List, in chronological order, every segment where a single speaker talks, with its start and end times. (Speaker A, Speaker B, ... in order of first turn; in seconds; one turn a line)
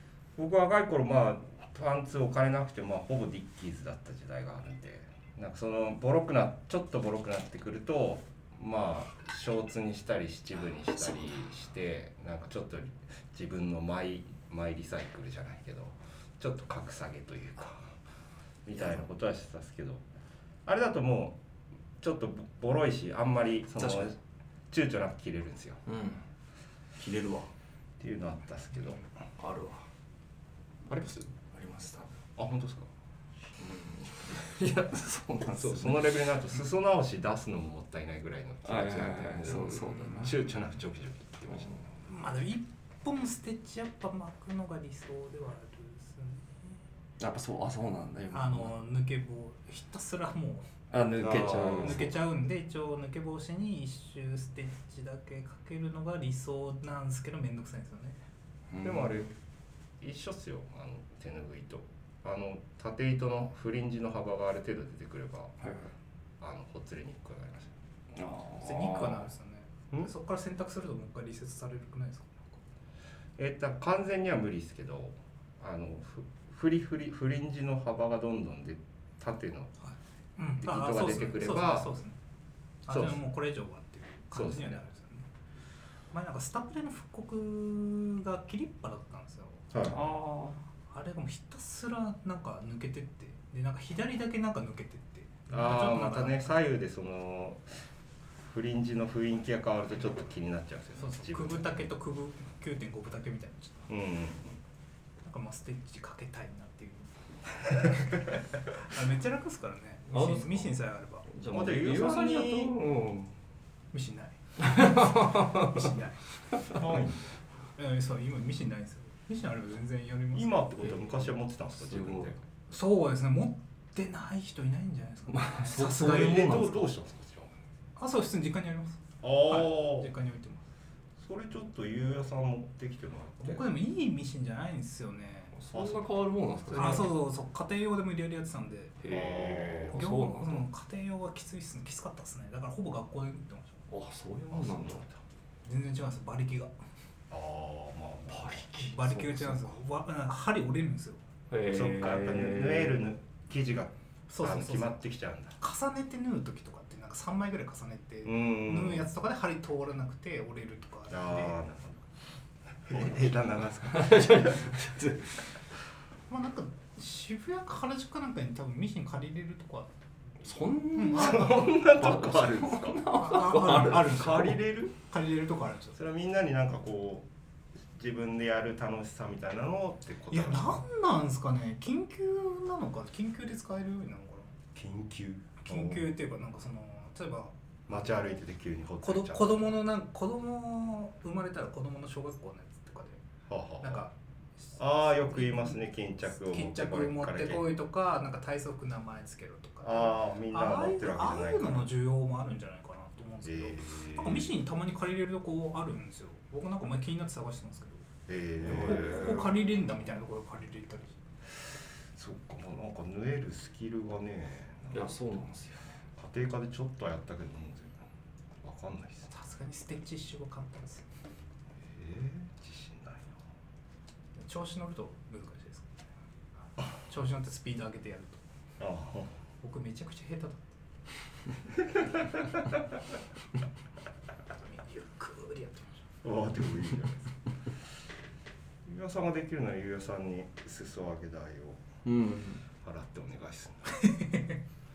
Speaker A: 0.4-17.9
Speaker B: 11.0-11.5
Speaker A: 18.7-20.0
Speaker B: 18.8-19.1
Speaker A: 20.7-21.4
Speaker A: 22.0-24.2
Speaker B: 23.8-24.1
Speaker A: 24.7-25.8
Speaker B: 25.9-26.2
Speaker B: 27.0-27.5
Speaker A: 28.0-29.0
Speaker B: 29.4-29.9
Speaker A: 30.9-31.3
Speaker B: 31.5-32.1
Speaker A: 32.4-32.9
Speaker B: 33.6-36.3
Speaker A: 35.5-41.8
Speaker B: 38.6-40.4
Speaker C: 42.1-46.8
Speaker B: 47.2-48.7
Speaker C: 48.3-50.7
Speaker B: 50.9-52.2
Speaker A: 51.2-52.1
Speaker C: 51.7-58.2
Speaker B: 58.7-59.3
Speaker A: 58.8-59.3
Speaker A: 60.0-65.5
Speaker B: 65.6-65.9
Speaker A: 66.4-67.7
Speaker B: 68.2-69.3
Speaker C: 68.6-72.6
Speaker A: 73.4-79.7
Speaker C: 79.8-82.2
Speaker A: 80.6-81.9
Speaker C: 82.8-85.3
Speaker A: 82.9-83.2
Speaker A: 84.3-84.8
Speaker C: 86.1-89.7
Speaker A: 89.7-90.0
Speaker B: 89.8-90.6
Speaker C: 90.9-96.6
Speaker A: 95.5-97.7
Speaker A: 98.5-101.9
Speaker C: 101.0-103.9
Speaker A: 103.9-104.6
Speaker C: 105.2-111.3
Speaker B: 110.1-113.3
Speaker A: 111.5-112.8
Speaker C: 113.9-116.2
Speaker B: 114.6-115.9
Speaker A: 116.7-117.4
Speaker C: 117.8-121.0
Speaker A: 120.3-122.4
Speaker B: 120.8-122.4
Speaker C: 122.7-126.6
Speaker B: 125.3-126.9
Speaker A: 125.8-127.5
Speaker C: 128.0-130.7
Speaker A: 129.2-130.1
Speaker A: 131.2-133.7
Speaker C: 133.4-135.6
Speaker B: 135.5-137.2
Speaker A: 135.7-136.2
Speaker C: 136.7-139.0
Speaker A: 136.7-137.1
Speaker B: 139.0-140.7
Speaker A: 139.1-140.0
Speaker C: 139.9-143.8
Speaker B: 143.9-145.0
Speaker A: 144.5-145.2
Speaker C: 145.7-146.7
Speaker A: 147.3-148.7
Speaker B: 148.3-149.8
Speaker C: 148.8-151.2
Speaker B: 151.5-153.1
Speaker A: 151.7-155.6
Speaker C: 154.3-155.0
Speaker C: 155.6-161.6
Speaker A: 158.2-159.1
Speaker A: 161.1-162.1
Speaker A: 162.8-164.6
Speaker B: 163.8-165.4
Speaker C: 166.3-171.5
Speaker B: 170.4-174.5
Speaker A: 171.1-173.2
Speaker C: 173.0-176.0
Speaker A: 173.9-174.9
Speaker A: 175.9-177.3
Speaker A: 177.9-180.8
Speaker C: 180.3-184.6
Speaker A: 184.7-186.1
Speaker C: 185.6-188.1
Speaker A: 187.9-189.7
Speaker C: 189.0-193.2
Speaker A: 193.5-194.1
Speaker C: 193.8-195.8
Speaker A: 194.8-197.7
Speaker C: 196.3-208.1
Speaker A: 199.8-201.9
Speaker A: 203.4-204.5
Speaker A: 208.3-209.5
Speaker C: 208.6-211.2
Speaker B: 208.8-209.4
Speaker A: 212.1-215.2
Speaker B: 214.9-215.9
Speaker A: 216.2-218.1
Speaker A: 218.6-219.3
Speaker C: 219.3-221.1
Speaker A: 221.9-223.4
Speaker C: 224.4-225.9
Speaker C: 226.9-228.4
Speaker A: 228.8-229.3
Speaker C: 229.6-230.8
Speaker A: 231.9-232.5
Speaker C: 234.6-236.1
Speaker A: 236.2-237.3
Speaker A: 238.8-241.8
Speaker B: 242.1-242.6
Speaker A: 242.8-243.9
Speaker C: 244.0-244.6